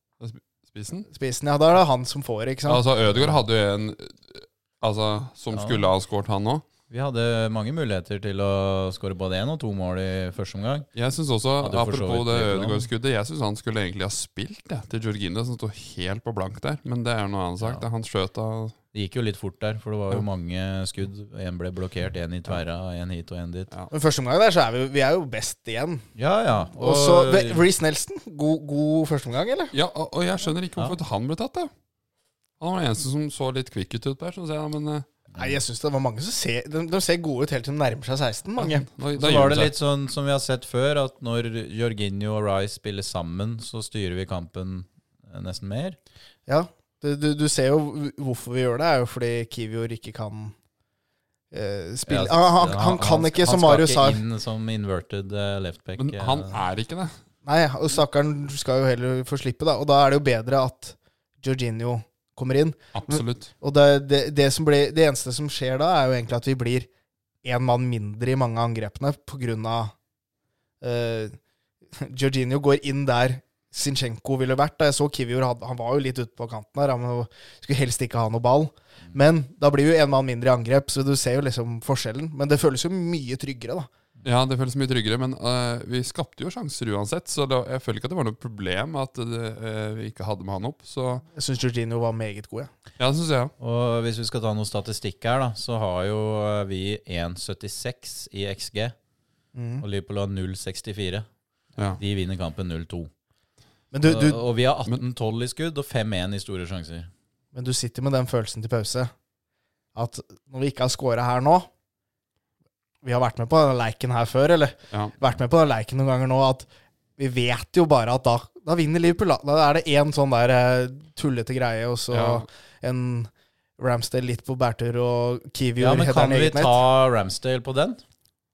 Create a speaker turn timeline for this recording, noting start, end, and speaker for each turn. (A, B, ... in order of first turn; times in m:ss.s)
0:00.2-0:01.1 A
0:01.1-0:02.8 B
0:02.7-0:06.6 A
0:05.5-0:05.9 C
0:06.9-0:10.9 C
0:11.0-0:18.8 A
0:11.6-0:12.9 C
0:18.9-0:23.7 C
0:23.9-0:26.0 B
0:26.2-0:27.6 C
0:26.7-0:29.7 B
0:29.7-0:31.7 A
0:32.6-0:35.1 A
0:35.3-0:35.6 C
0:35.4-0:38.9 B
0:38.6-0:39.7 A
0:39.2-0:46.0 C
0:46.5-0:50.6 B
0:51.5-0:54.2 B
0:52.1-0:56.6 C
0:56.0-0:57.1 A
0:57.4-1:06.9 B
1:02.9-1:03.5 A
1:07.4-1:09.9 B
1:10.8-1:11.4 B
1:11.9-1:23.9 B
1:24.2-1:31.2 A
1:31.3-1:32.7 B
1:33.0-1:33.5 A
1:33.6-1:39.0 C
1:39.6-1:39.8 B
1:39.8-1:41.2 C
1:42.0-1:43.1 C
1:43.9-1:44.4 B
1:44.0-1:47.1 C
1:47.5-1:49.1 B
1:50.0-1:51.7 B
1:53.0-2:06.8 B
2:02.1-2:02.4 A
2:05.8-2:08.0 C